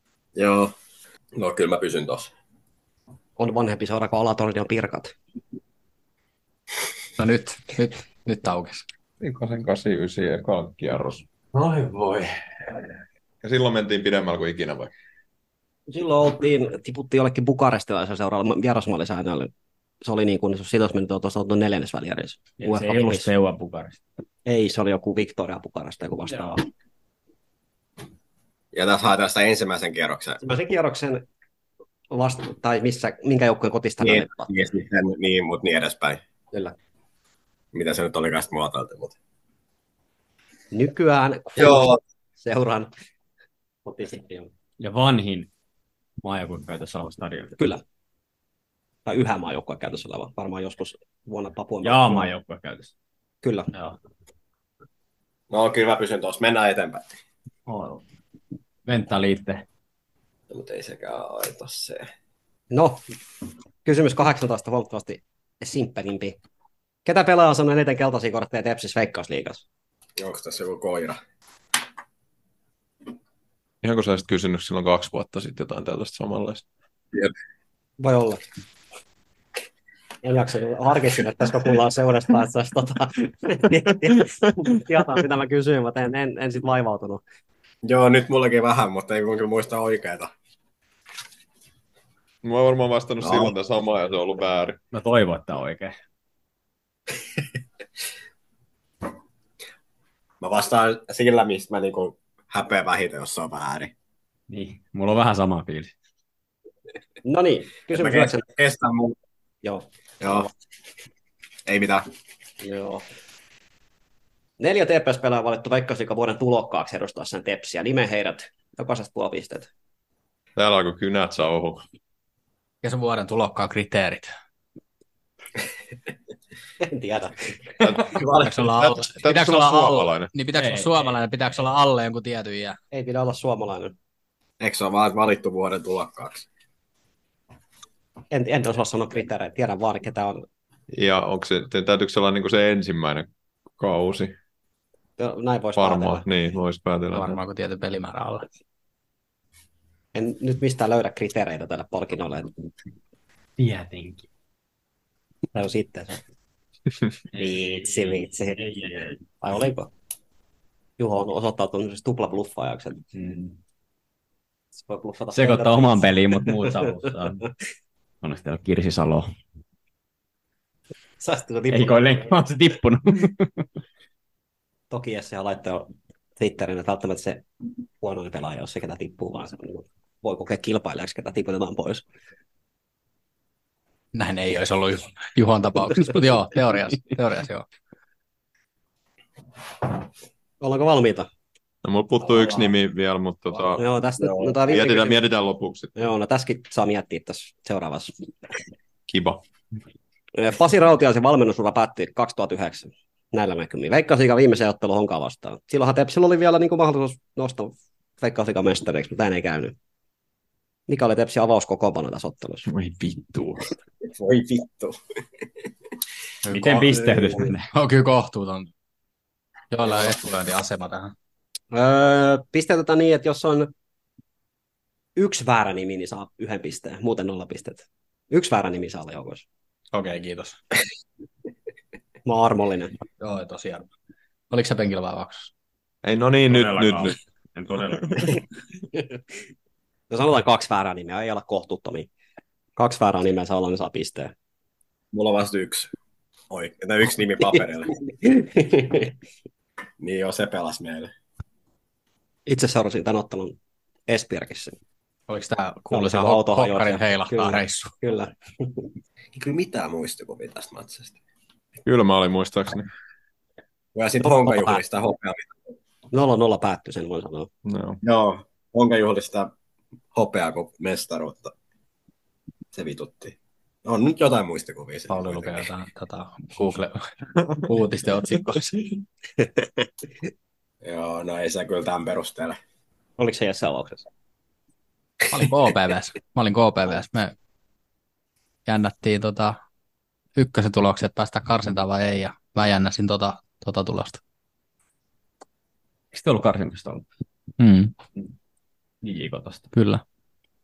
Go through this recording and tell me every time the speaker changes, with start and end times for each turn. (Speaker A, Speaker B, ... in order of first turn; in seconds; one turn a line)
Speaker A: 0.4-0.7
Speaker A: 1.4-2.3
Speaker B: 3.4-5.2
Speaker C: 7.2-8.8
Speaker D: 9.2-11.2
Speaker D: 13.4-14.9
Speaker B: 15.9-19.5
Speaker B: 20.0-23.3
Speaker E: 22.6-24.0
Speaker B: 24.5-26.6
Speaker A: 28.7-30.4
Speaker B: 30.4-31.2
Speaker B: 32.1-34.7
Speaker A: 34.0-36.2
Speaker A: 37.7-39.1
Speaker B: 40.7-42.9
Speaker A: 41.6-42.0
Speaker B: 43.9-44.5
Speaker E: 44.8-45.5
Speaker E: 46.2-47.6
Speaker B: 47.6-47.8
Speaker B: 49.1-52.3
Speaker E: 51.8-52.9
Speaker B: 53.4-53.7
Speaker A: 55.5-57.1
Speaker E: 57.7-58.0
Speaker E: 58.9-59.6
Speaker A: 60.5-62.1
Speaker B: 62.7-63.0
Speaker B: 63.9-66.4
Speaker B: 67.0-69.6
Speaker A: 70.2-71.2
Speaker D: 73.8-76.7
Speaker B: 78.0-78.4
Speaker B: 80.2-87.2
Speaker A: 87.8-90.3
Speaker D: 92.4-94.8
Speaker A: 93.2-93.5
Speaker E: 94.9-96.0
Speaker A: 100.4-103.9
Speaker E: 104.5-105.9
Speaker B: 107.2-108.5
Speaker A: 107.9-109.2
Speaker B: 109.6-110.5
Speaker A: 110.2-110.5
Speaker A: 111.7-112.0
Speaker B: 112.6-113.0
Speaker B: 114.6-119.7
Speaker D: 120.6-121.8
Speaker C: 122.8-124.3
Speaker B: 126.8-127.6
Speaker D: 127.8-130.3
Speaker C: 128.4-132.8
Speaker E: 130.6-131.1
Speaker B: 132.9-133.9
Speaker A: 134.6-136.5
Speaker B: 138.3-140.5
Speaker D: 140.9-144.3
Speaker B: 145.2-146.2
Speaker D: 145.8-147.4
Speaker C: 147.1-148.5
Speaker B: 150.1-152.5
Speaker E: 153.6-154.2
Speaker B: 155.5-156.2
Speaker E: 157.3-159.2
Speaker B: 157.3-158.6
Speaker B: 159.4-159.9
Speaker B: 161.0-163.0
Speaker E: 163.1-163.6
Speaker B: 164.8-166.7
Speaker E: 165.3-167.4
Speaker E: 168.2-169.3
Speaker B: 171.2-172.1
Speaker E: 171.7-173.7
Speaker B: 174.9-177.4
Speaker B: 178.0-182.1
Speaker C: 184.1-187.7
Speaker B: 190.6-191.3
Speaker D: 191.8-193.8
Speaker C: 192.4-192.7
Speaker B: 193.8-195.2
Speaker D: 194.5-195.9
Speaker B: 195.9-198.1
Speaker D: 199.1-199.4
Speaker B: 200.3-209.8
Speaker B: 210.9-212.7
Speaker D: 212.7-213.7
Speaker A: 214.1-215.0
Speaker C: 216.5-218.7
Speaker E: 216.5-217.7
Speaker C: 219.7-221.1
Speaker B: 221.7-223.7
Speaker B: 225.2-229.4
Speaker C: 229.9-230.6
Speaker B: 232.3-232.9
Speaker C: 233.2-233.9
Speaker C: 234.5-235.5
Speaker D: 236.0-237.2
Speaker E: 236.5-238.4
Speaker B: 240.1-242.1
Speaker B: 242.8-244.3
Speaker A: 245.1-245.9
Speaker A: 246.5-247.9
Speaker B: 248.2-249.1
Speaker A: 250.0-251.1
Speaker B: 252.5-253.6
Speaker B: 254.1-254.8
Speaker C: 255.3-257.9
Speaker B: 255.9-258.9
Speaker A: 259.3-261.2
Speaker D: 261.8-262.9
Speaker A: 263.9-265.6
Speaker B: 264.2-264.8
Speaker B: 266.1-267.5
Speaker D: 267.6-268.0
Speaker A: 268.0-269.5
Speaker A: 270.1-271.5
Speaker A: 272.7-275.7
Speaker C: 275.1-277.1
Speaker C: 277.6-279.0
Speaker A: 280.8-282.6
Speaker B: 283.2-284.1
Speaker C: 285.3-287.3
Speaker C: 288.7-289.6
Speaker C: 290.4-294.2
Speaker E: 296.1-297.1
Speaker C: 297.6-297.9
Speaker E: 299.0-299.7
Speaker C: 299.7-300.0